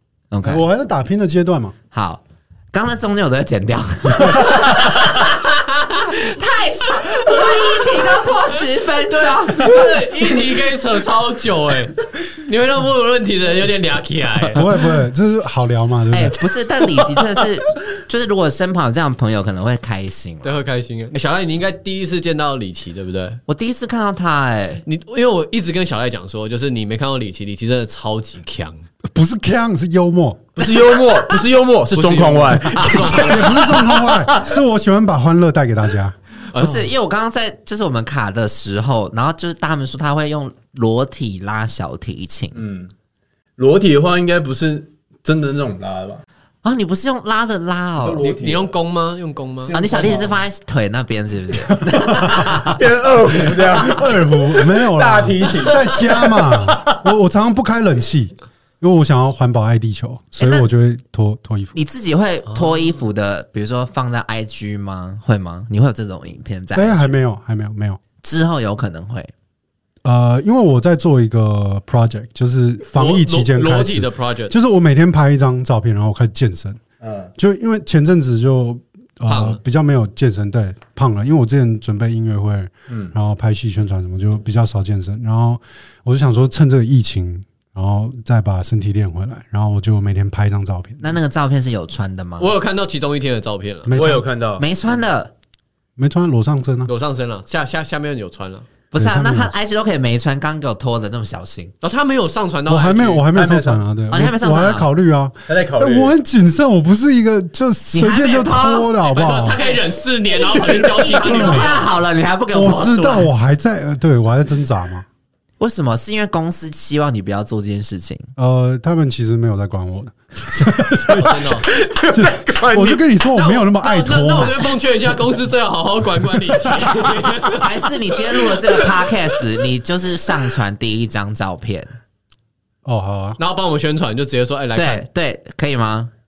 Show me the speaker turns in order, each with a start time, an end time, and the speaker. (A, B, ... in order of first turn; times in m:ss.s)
0:00.3-0:00.6 A
0:00.4-0:01.7 B
0:01.9-0:05.2 A
0:04.3-0:06.1 C
0:06.1-0:10.1 A
0:07.4-0:07.8 C
0:09.1-0:14.6 C
0:14.5-0:16.4 B
0:16.1-0:20.6 A
0:20.4-0:23.4 C
0:23.5-0:24.8 A
0:24.8-0:28.8 C
0:29.1-0:30.4 B
0:30.6-0:34.5 D
0:31.9-0:33.8 C
0:33.0-0:36.2 B
0:36.5-0:36.9 C
0:36.5-0:42.6 A
0:42.5-0:42.9 D
0:43.6-0:46.2 D
0:46.6-0:48.2 A
0:48.0-0:48.7 D
0:48.2-0:49.7 C
0:49.6-0:50.4 D
0:49.7-0:52.8 A
0:51.9-0:52.5 B
0:52.2-0:57.0 D
0:53.5-1:01.8 B
1:00.4-1:00.7 A
1:01.7-1:07.1 A
1:06.7-1:08.0 B
1:08.2-1:09.3 A
1:10.0-1:16.8 B
1:12.9-1:14.5 C
1:17.0-1:17.3 D
1:17.4-1:31.1 B
1:19.3-1:19.6 C
1:22.9-1:23.1 D
1:31.0-1:32.5 A
1:32.4-1:33.9 C
1:33.8-1:34.2 B
1:33.9-1:34.6 D
1:34.6-1:35.3 A
1:36.0-1:36.9 B
1:36.9-1:38.7 C
1:38.9-1:41.7 A
1:38.9-1:39.5 B
1:41.8-1:43.3 C
1:42.7-1:49.6 B
1:43.3-1:43.8 D
1:44.1-1:44.9 A
1:45.5-1:46.1 D
1:47.9-1:53.3 A
1:49.0-1:51.8 C
1:50.6-1:51.7 B
1:52.5-1:55.0 B
1:55.6-1:58.3 A
1:58.4-2:04.7 B
2:01.2-2:01.7 C
2:01.2-2:03.0 D
2:03.3-2:07.8 C
2:07.5-2:11.9 A
2:12.8-2:13.4 B
2:13.4-2:15.0 C
2:14.7-2:16.1 A